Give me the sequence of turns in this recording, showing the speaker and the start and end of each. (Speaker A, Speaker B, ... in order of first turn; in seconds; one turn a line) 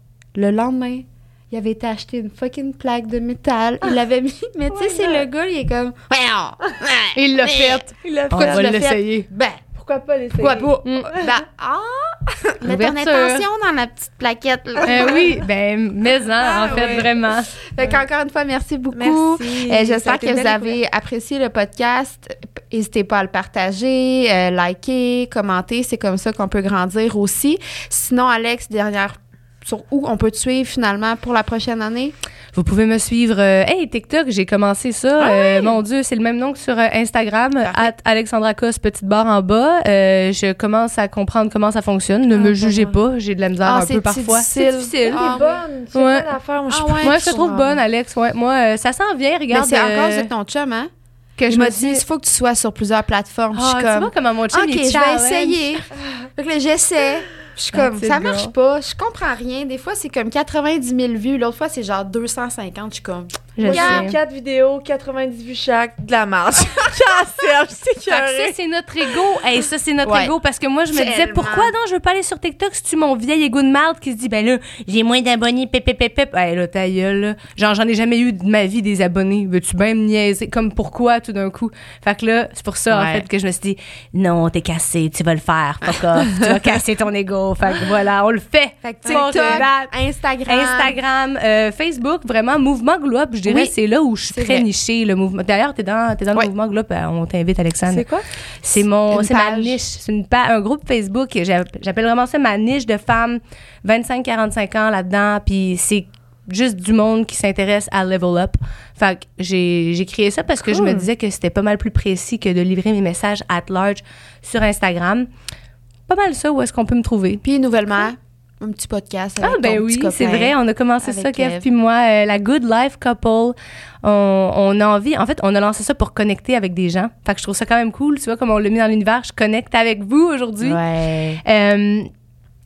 Speaker A: 0.3-9.6
Speaker B: 4.7-5.3
Speaker C: 7.1-9.3
Speaker B: 8.0-8.8
Speaker B: 9.7-11.3
Speaker A: 10.4-15.4
Speaker C: 10.8-11.1
Speaker C: 12.6-13.5
Speaker C: 14.8-17.5
Speaker A: 16.4-32.1
Speaker B: 16.5-17.1
Speaker B: 18.9-20.8
Speaker C: 32.5-45.4
Speaker A: 35.2-35.8
Speaker A: 37.6-37.9
Speaker B: 42.3-43.0
Speaker A: 43.6-45.6
Speaker B: 45.1-47.8
Speaker C: 45.9-46.3
Speaker A: 46.7-47.6
Speaker C: 47.0-50.3
Speaker A: 49.5-50.9
Speaker C: 51.4-52.0
Speaker A: 51.5-55.9
Speaker C: 53.5-55.8
Speaker A: 56.4-64.1
Speaker C: 57.7-58.5
Speaker C: 63.6-64.2
Speaker B: 63.6-68.5
Speaker C: 68.1-89.9
Speaker A: 70.0-70.3
Speaker A: 70.9-71.8
Speaker A: 82.9-83.3
Speaker A: 88.9-91.0
Speaker B: 89.0-89.6
Speaker C: 90.5-98.1
Speaker A: 93.5-93.7
Speaker A: 94.3-94.7
Speaker B: 97.9-98.3
Speaker C: 98.6-115.3
Speaker A: 99.1-99.8
Speaker A: 110.7-111.1
Speaker C: 116.1-117.4
Speaker A: 117.4-121.6
Speaker C: 119.4-130.8
Speaker A: 130.6-131.4
Speaker C: 131.4-132.1